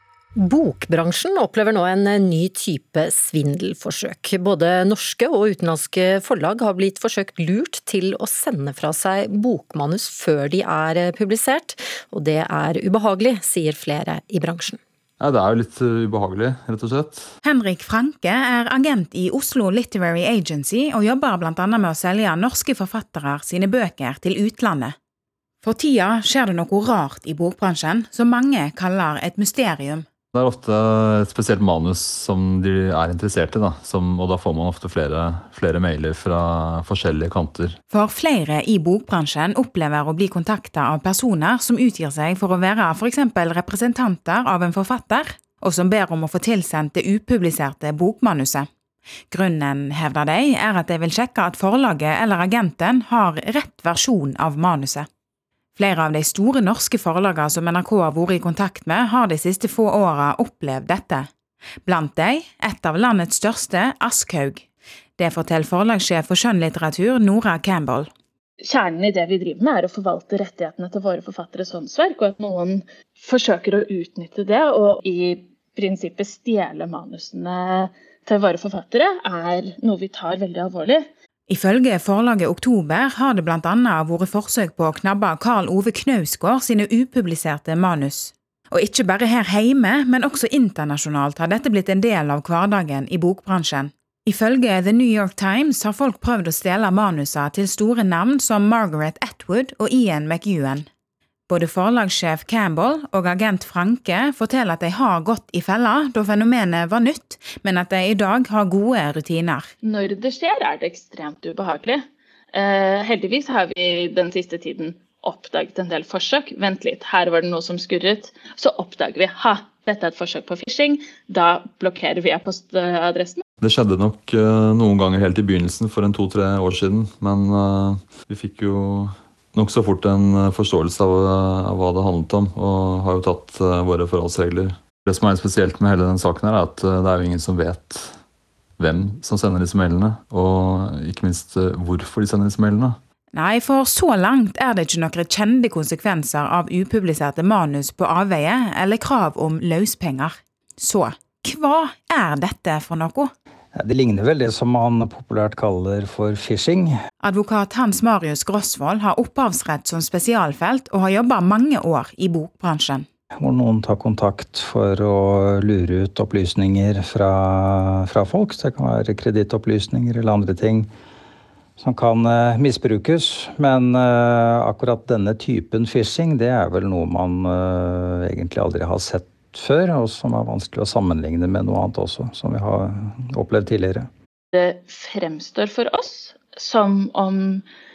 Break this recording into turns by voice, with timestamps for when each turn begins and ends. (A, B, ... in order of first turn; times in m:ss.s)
0:00.4-0:14.8 A
0:15.2-0:17.2 B
0:17.4-0:25.0 C
0:25.6-0:30.0 C
0:30.4-0:37.7 B
0:37.9-0:48.7 C
0:49.3-0:55.1 C
0:55.8-1:01.3 C
1:01.8-1:04.6 C
1:05.2-1:08.1 C
1:08.7-1:21.0 D
1:21.5-1:40.9 C
1:41.5-1:49.7 C
1:49.8-1:52.0 D
1:52.5-2:03.4 D
2:03.6-2:18.0 B
2:18.8-2:22.9 B
2:23.3-2:33.3 C
2:33.8-2:36.9 E
2:37.2-2:43.0 C
2:43.4-2:50.9 E
2:51.8-3:04.1 E
3:04.5-3:07.6 D